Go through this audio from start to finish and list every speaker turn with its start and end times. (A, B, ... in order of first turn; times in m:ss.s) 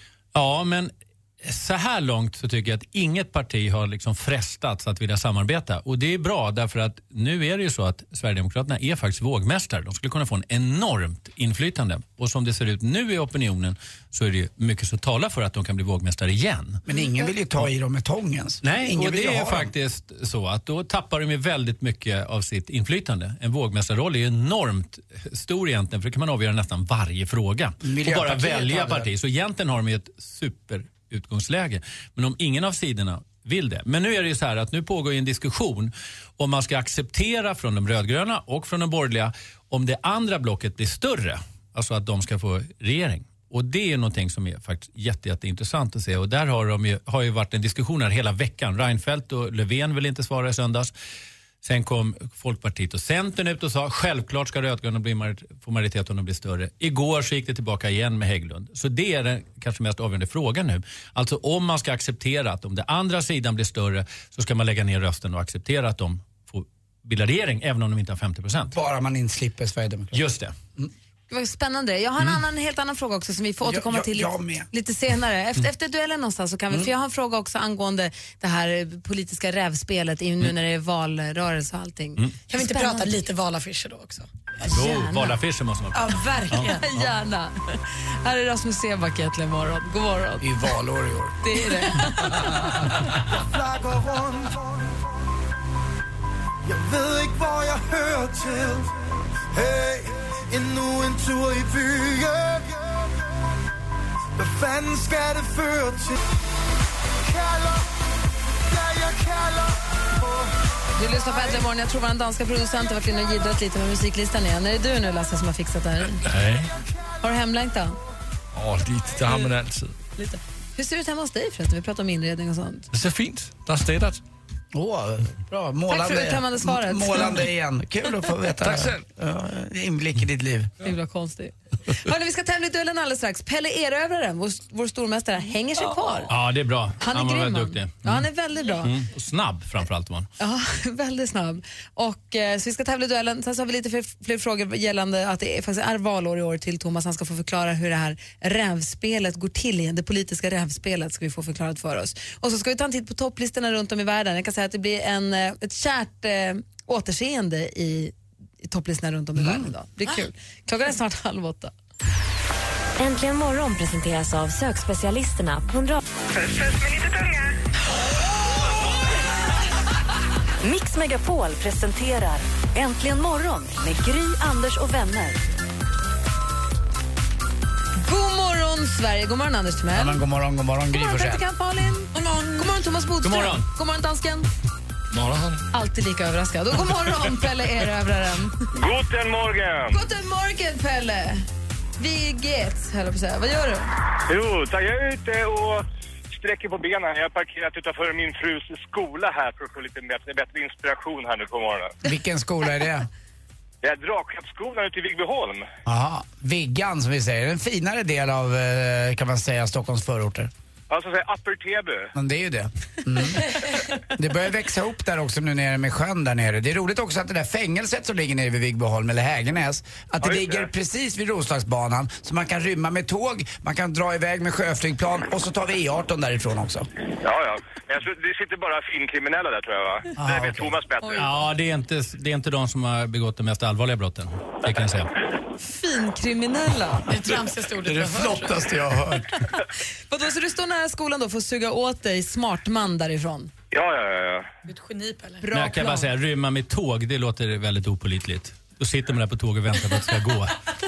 0:00.3-0:16.8 A
0:16.9-0:19.7 B
0:18.6-0:50.9 A
0:27.8-0:29.1 B
0:51.6-1:08.8 A
1:08.7-1:10.2 B
1:10.1-1:10.5 A
1:11.3-1:23.1 C
1:13.6-1:14.7 B
1:22.5-1:24.3 D
1:24.6-1:25.4 C
1:24.6-1:27.1 A
1:25.9-1:26.8 D
1:26.5-1:30.5 C
1:30.4-1:31.4 B
1:31.4-1:33.0 C
1:33.5-1:35.0 E
1:36.6-1:38.9 E
1:39.5-1:43.1 E
1:44.4-1:46.2 E
1:47.2-1:47.9 E
1:48.7-1:50.5 E
1:51.0-1:56.2 C
1:56.2-1:56.7 F
1:57.2-1:58.0 C
1:58.5-2:00.0 F
2:00.8-2:02.9 C
2:02.9-2:04.2 F
2:04.7-2:10.7 B
2:05.9-2:07.4 C
2:08.6-2:09.0 F
2:10.8-2:16.3 C
2:15.8-2:16.3 D
2:16.3-2:18.3 A
2:17.0-2:19.0 C
2:18.8-2:20.3 A
2:20.4-2:41.7 C
2:39.4-2:39.7 B
2:43.0-2:46.0 G
2:50.6-2:55.4 G
2:58.0-3:00.2 C
2:59.9-3:01.4 B
3:00.9-3:04.5 C
3:02.1-3:02.8 D
3:03.2-3:03.7 A
3:05.1-3:05.6 F
3:05.7-3:08.6 C
3:08.7-3:10.0 H
3:09.9-3:11.5 C
3:12.0-3:13.9 C
3:14.3-3:22.0 H
3:22.0-3:23.1 B
3:23.8-3:25.7 H
3:25.9-3:30.5 B
3:30.9-3:32.1 H
3:32.2-3:46.9 B
3:40.2-3:40.7 H
3:47.2-3:51.3 H
3:50.2-3:50.8 B
3:51.0-3:51.3 C
3:51.2-3:55.1 A
3:55.6-3:57.1 C
3:57.1-3:58.7 D
3:57.8-3:59.4 B
4:00.1-4:03.5 C
4:03.7-4:04.5 H
4:04.7-4:05.4 D
4:05.4-4:06.1 C
4:05.5-4:10.6 A